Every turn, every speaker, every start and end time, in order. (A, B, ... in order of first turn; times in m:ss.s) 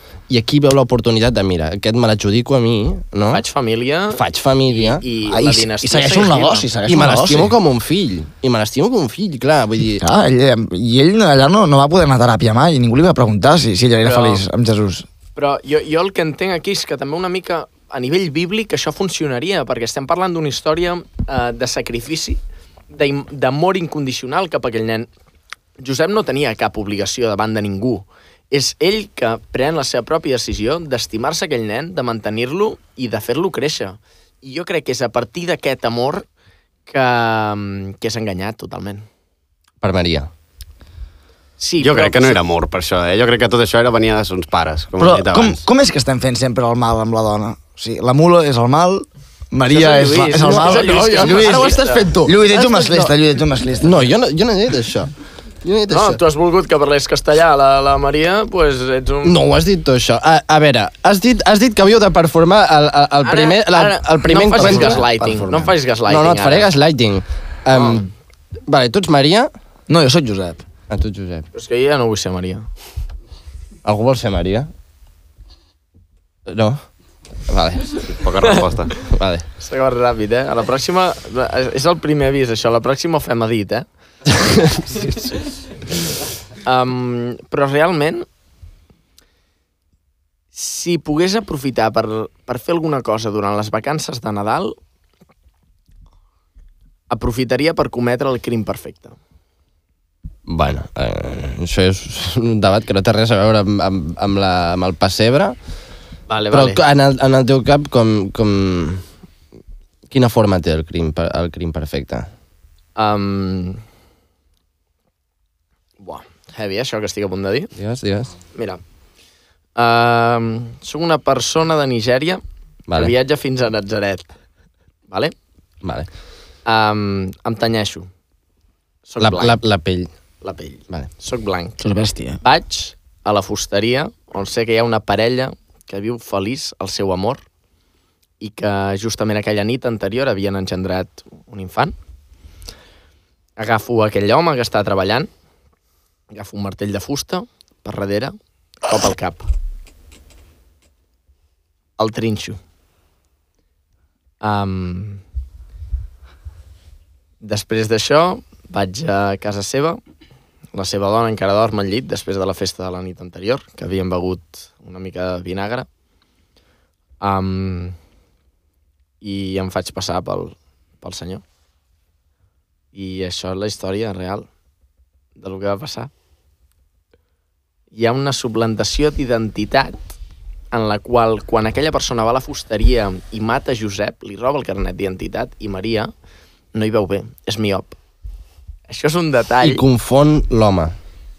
0:00.3-0:03.4 A
0:03.3-0:06.7 B
0:04.1-0:05.0 A
0:05.3-0:07.5 C
0:06.9-0:10.0 A
0:10.0-0:15.1 C
0:14.0-0:14.4 B
0:15.4-0:22.4 B
0:22.9-0:25.1 B
0:25.8-0:36.2 B
0:36.9-0:39.0 B
0:39.8-0:40.3 A
0:41.6-0:42.4 B
0:41.8-0:45.6 D
0:45.0-0:54.1 C
0:49.7-0:52.1 B
0:50.4-0:53.1 A
0:53.8-0:55.1 A
0:55.6-0:56.2 A
0:55.9-0:59.4 B
0:59.2-1:05.0 A
1:03.2-1:06.7 B
1:04.6-1:05.7 C
1:06.1-1:08.0 A
1:07.7-1:08.1 B
1:08.7-1:09.5 A
1:09.9-1:10.6 C
1:10.9-1:11.4 A
1:11.5-1:12.6 B
1:13.8-1:14.7 A
1:16.5-1:16.8 A
1:17.5-1:17.9 A
1:18.1-1:18.9 D
1:19.0-1:19.4 A
1:19.6-1:23.8 B
1:24.8-1:25.2 B
1:26.6-1:28.2 B
1:30.5-1:34.7 B
1:37.1-1:39.1 B
1:40.5-1:45.5 A
1:46.3-1:46.8 B
1:46.5-1:49.0 A
1:50.1-1:52.3 A
1:53.0-1:53.8 B
1:56.0-1:57.7 B
1:57.7-1:58.3 A
1:58.5-1:58.8 B
1:59.8-2:02.4 B
2:02.9-2:04.3 B
2:05.1-2:05.3 B
2:05.8-2:06.1 A
2:06.6-2:08.1 B
2:09.1-2:09.6 B
2:09.2-2:10.1 A
2:10.4-2:11.8 B
2:11.8-2:12.4 C
2:12.4-2:17.4 B
2:18.4-2:21.9 B
2:23.6-2:25.3 B
2:26.3-2:28.3 B
2:28.8-2:29.5 B
2:32.0-2:32.6 B
2:34.4-2:35.2 B
2:37.4-2:40.0 B
2:40.7-2:45.9 B
2:47.2-2:48.0 B
2:49.2-2:51.4 B
2:52.9-2:54.5 B
2:55.4-2:56.1 B
2:57.9-3:00.1 B
3:00.7-3:06.1 B
3:06.7-3:07.9 B
3:08.9-3:09.8 B
3:09.6-3:10.9 A